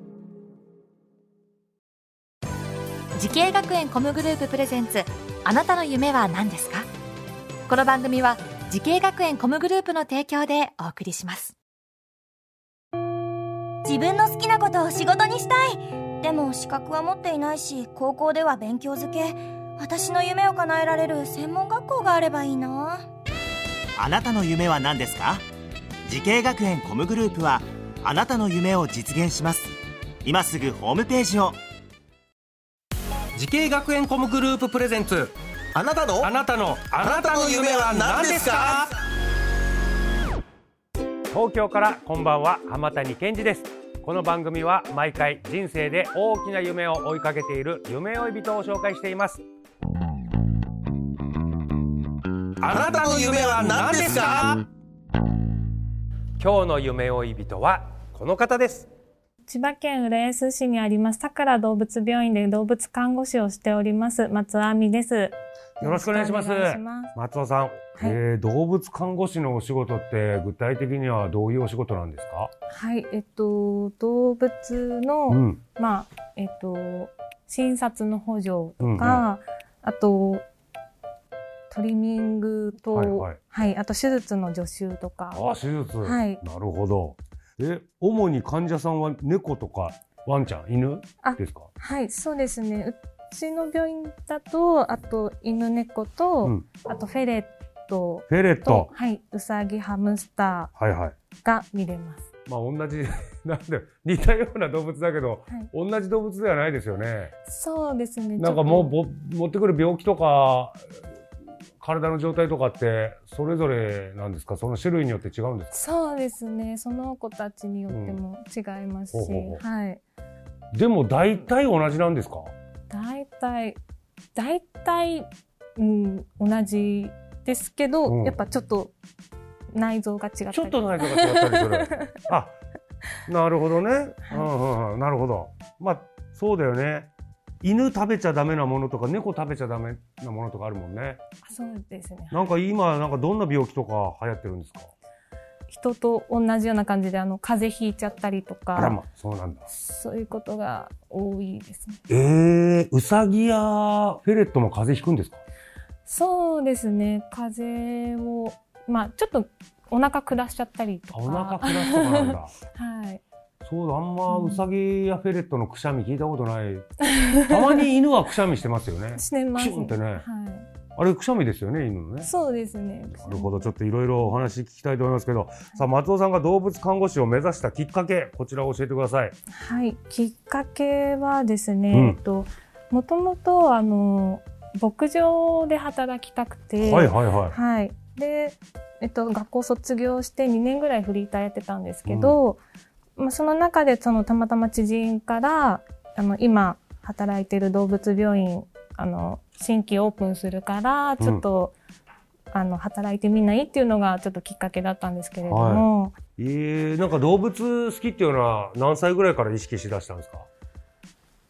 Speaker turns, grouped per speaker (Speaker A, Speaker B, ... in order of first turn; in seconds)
Speaker A: 3.1-6.9, 7.7-11.5
Speaker B: 13.8-23.1
Speaker C: 24.0-25.4, 26.1-31.6
Speaker D: 33.4-35.3, 36.2-38.8, 41.3-49.4, 52.7-54.4, 56.4-58.9, 65.8-72.5, 75.3-75.6, 78.8-79.2, 82.9-83.4, 85.3-91.7, 98.3-98.9, 100.8-101.1, 102.5-107.3, 108.4-110.8, 111.8-115.7, 117.9-118.2, 119.1-119.6, 120.7-122.5, 128.1-128.4, 130.5-132.5, 133.3-137.1, 137.6-141.2, 142.3-144.9, 148.8-149.7, 152.1-155.4, 161.1-162.5, 163.7-166.9, 167.5-170.2, 170.9-172.3, 173.2-179.3, 181.9-182.2, 186.8-187.6, 192.1-192.4, 205.4-210.5
Speaker E: 35.8-36.3, 37.0-38.9, 52.6-54.6
Speaker F: 59.5-67.1, 72.7-80.4, 81.7-85.4, 86.0-86.4, 91.2-100.7, 101.4-102.2, 107.4-108.9, 115.7-120.0, 122.9-123.8, 124.3-128.9, 129.7-132.2, 141.4-142.5, 145.7-149.0, 149.7-152.0, 156.1-163.2, 164.3-164.6, 167.0-167.8, 169.2-170.7, 172.2-173.7, 179.5-192.6, 193.2-201.8, 202.5-206.2